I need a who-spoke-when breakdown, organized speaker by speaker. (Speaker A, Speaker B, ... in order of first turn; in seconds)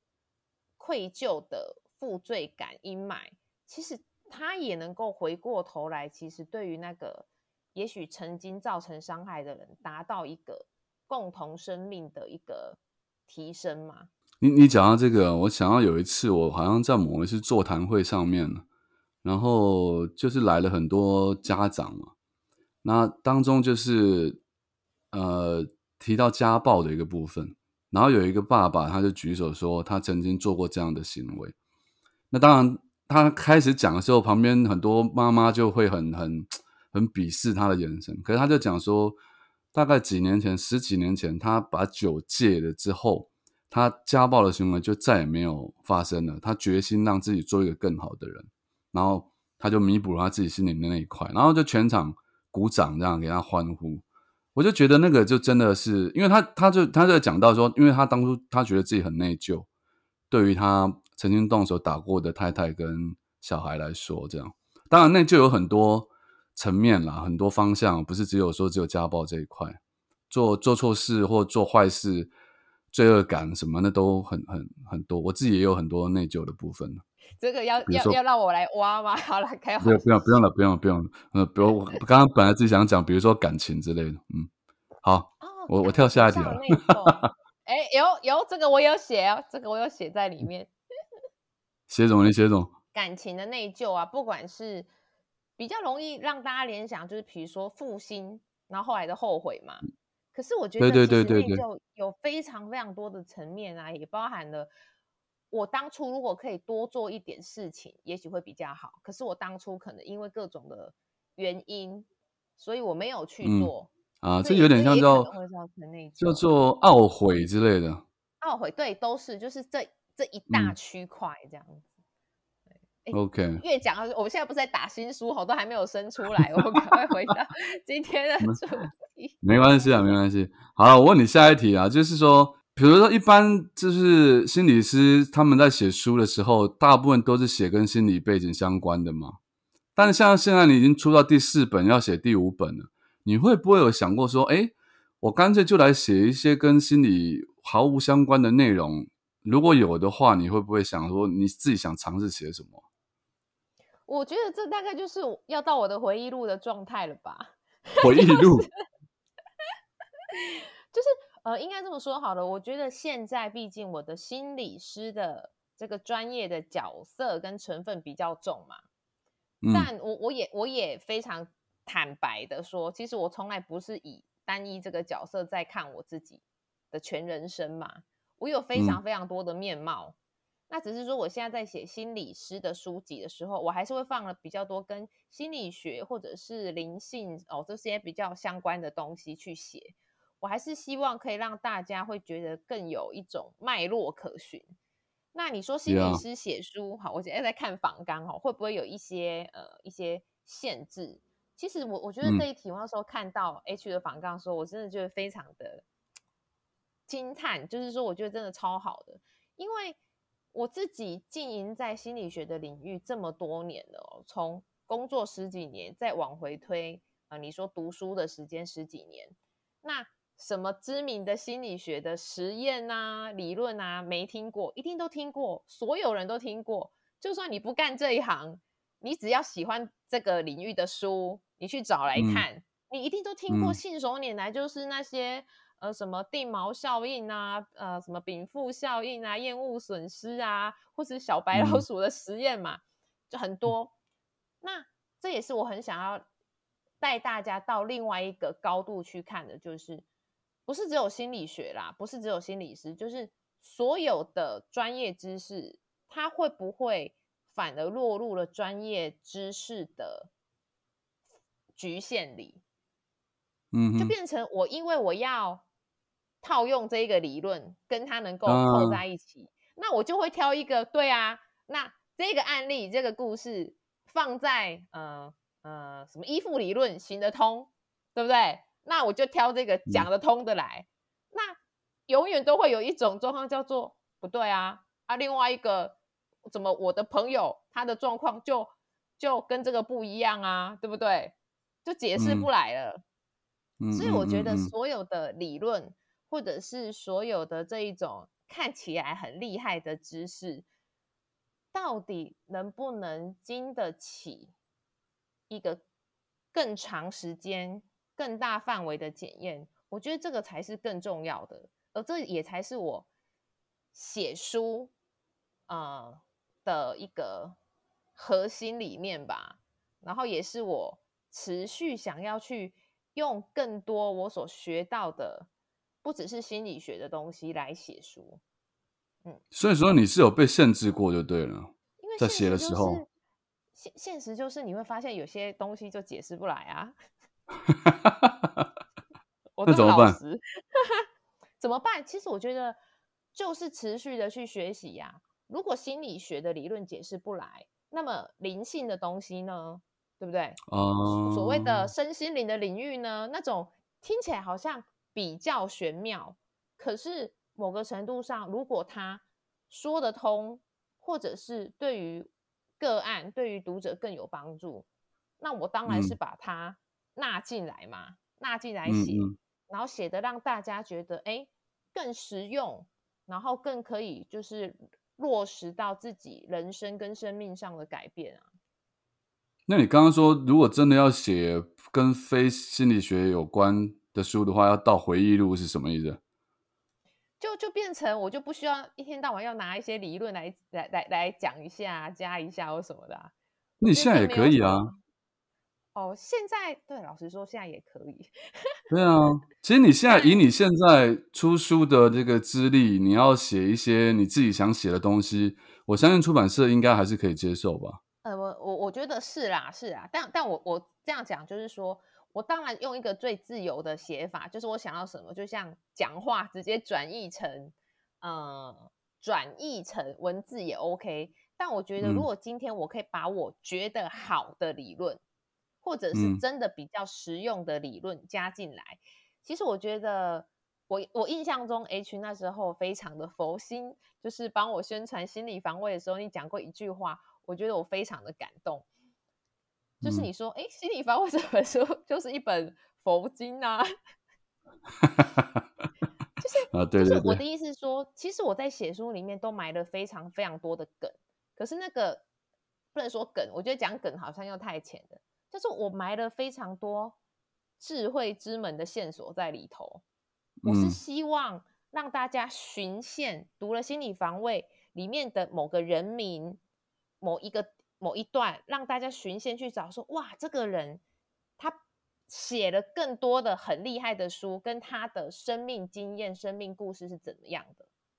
Speaker A: 0.8-14.1, 77.4-80.1, 85.4-90.7, 92.9-94.9, 95.6-104.7, 105.5-113.9, 114.4-116.5, 118.4-121.9, 123.0-129.4, 154.1-158.7, 160.3-168.8, 169.7-180.1, 180.7-194.6, 195.3-205.8, 207.1-210.0, 210.5-243.9, 244.6-246.2, 247.0-250.0, 250.7-260.3, 261.8-262.6, 264.0-265.6, 266.4-293.0, 293.9-300.6, 301.7-304.5, 305.5-305.8, 306.5-313.1, 313.9-314.9, 315.7-317.6, 318.1-325.5, 326.0-328.4, 332.0-333.1, 333.7-336.9, 339.6-341.0, 341.6-342.8, 343.3-364.9, 365.4-378.4, 387.4-393.3, 393.9-394.9, 395.9-398.3, 400.1-400.4, 408.2-425.2, 425.8-438.9, 440.0-443.8, 446.4-452.2, 452.9-457.1, 457.8-460.0, 460.6-466.6, 467.2-471.0, 471.6-477.9
Speaker B: 14.4-18.6, 19.2-22.1, 22.8-24.4, 25.1-31.5, 32.3-39.2, 39.7-54.0, 54.5-59.7, 60.3-69.8, 70.3-72.3, 72.9-77.0, 77.9-78.2, 79.8-84.5, 85.0-87.3, 91.9-92.7, 100.8-101.6, 113.4-115.3, 116.2-118.0, 120.5-120.7, 123.1-123.6, 129.4-139.4, 139.9-152.8, 158.0-158.7, 169.6-169.9, 178.7-179.0, 195.9-196.2, 232.2-232.4, 233.5-233.8, 241.5-241.8, 263.7-264.1, 268.4-269.0, 292.1-292.5, 293.8-294.7, 329.5-333.0, 337.7-338.6, 339.7-340.2, 350.7-351.9, 365.9-366.1, 368.9-369.4, 379.7-386.2, 393.8-394.9, 398.9-408.0, 422.0-422.3, 426.1-426.4, 440.0-440.3, 445.0-445.5, 446.7-447.4, 460.6-461.0